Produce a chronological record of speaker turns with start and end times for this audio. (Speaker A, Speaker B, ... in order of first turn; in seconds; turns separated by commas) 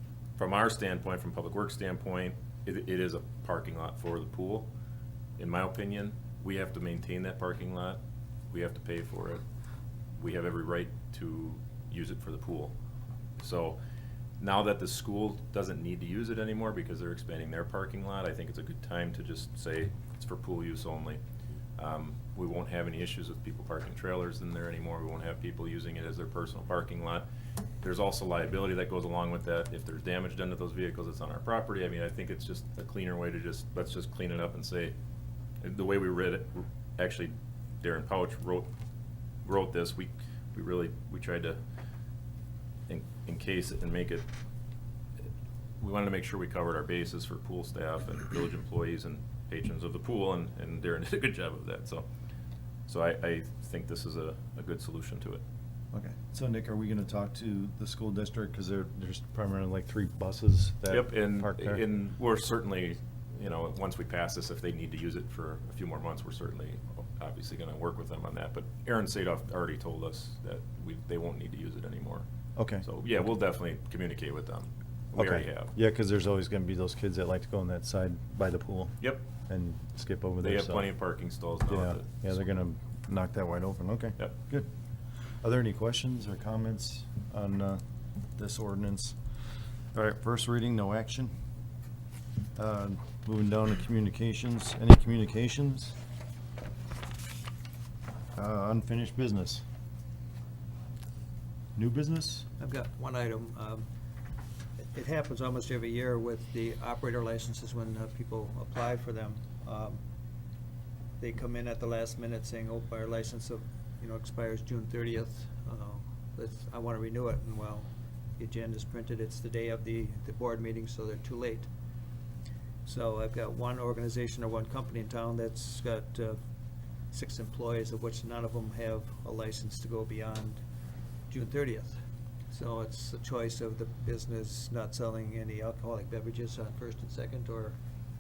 Speaker A: 0.4-4.7, Speaker A: 5.4-9.4, Speaker A: 10.2-12.7, Speaker A: 13.4-13.8, Speaker A: 14.4-21.2, Speaker A: 21.8-27.3, Speaker A: 27.8-35.0, Speaker A: 35.6-38.7, Speaker A: 39.5-41.6, Speaker A: 42.9-44.3, Speaker A: 45.8-52.1, Speaker A: 52.9-55.4, Speaker B: 55.9-61.8, Speaker A: 60.9-72.2, Speaker B: 72.6-72.8, Speaker A: 72.8-75.8, Speaker B: 75.1-81.0, Speaker A: 79.0-79.3, Speaker A: 80.4-82.4, Speaker B: 81.7-84.7, Speaker B: 85.4-87.8, Speaker B: 88.4-89.2, Speaker B: 89.9-91.3, Speaker B: 92.6-96.0, Speaker B: 98.4-99.6, Speaker B: 101.8-102.5, Speaker C: 102.6-103.9, Speaker C: 104.9-110.0, Speaker C: 111.2-121.7, Speaker C: 122.8-126.4, Speaker C: 127.1-130.6, Speaker C: 131.3-132.0, Speaker C: 132.5-137.8